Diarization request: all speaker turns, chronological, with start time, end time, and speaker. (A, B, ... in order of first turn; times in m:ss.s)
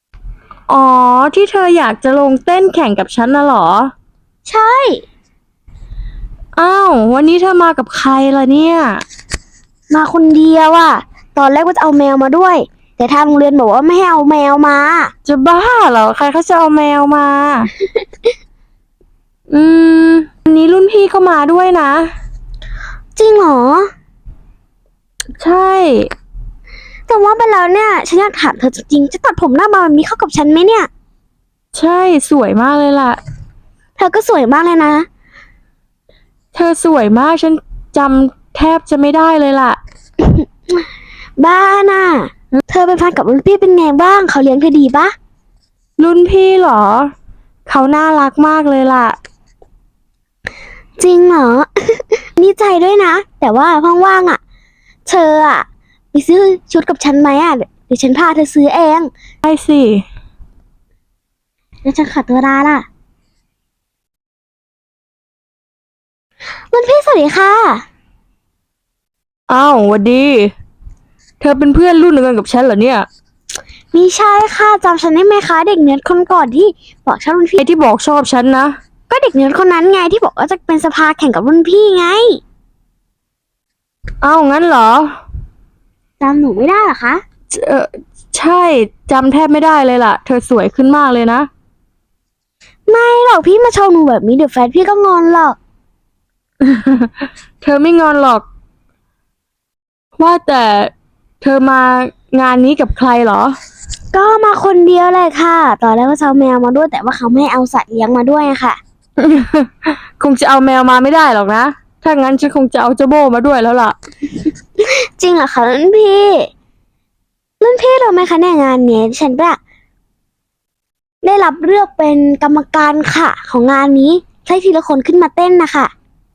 0:00.7-0:03.9 A
0:04.4-0:05.0 B
0:06.6-0:09.0 A
0:09.9-0:15.1 B
0:15.2-0:17.7 A
0:19.5-0:22.1 A
0:23.2-0:23.9 B
0:25.4-0:26.1 A
0:27.1-0:30.9 B
0:31.7-0:33.2 A
0:34.0-0:35.1 B
0:36.5-0:39.8 A
0:40.2-0:40.8 B
0:41.4-0:45.1 B
0:46.0-0:47.1 A
0:47.7-0:49.2 A
0:51.0-0:54.4 B
0:55.0-0:59.1 B
0:59.4-1:00.0 A
1:01.8-1:02.8 B
1:06.7-1:07.8 B
1:09.5-1:10.5 A
1:11.4-1:13.1 A
1:13.9-1:17.6 B
1:17.6-1:18.7 A
1:19.1-1:22.4 B
1:24.2-1:25.1 A
1:26.2-1:27.2 B
1:27.5-1:31.5 A
1:32.9-1:35.6 B
1:36.6-1:38.4 A
1:40.2-1:43.5 A
1:44.1-1:48.8 B
1:49.2-1:53.9 A
1:54.8-1:56.5 B
1:57.6-1:59.6 B
2:01.2-2:05.9 B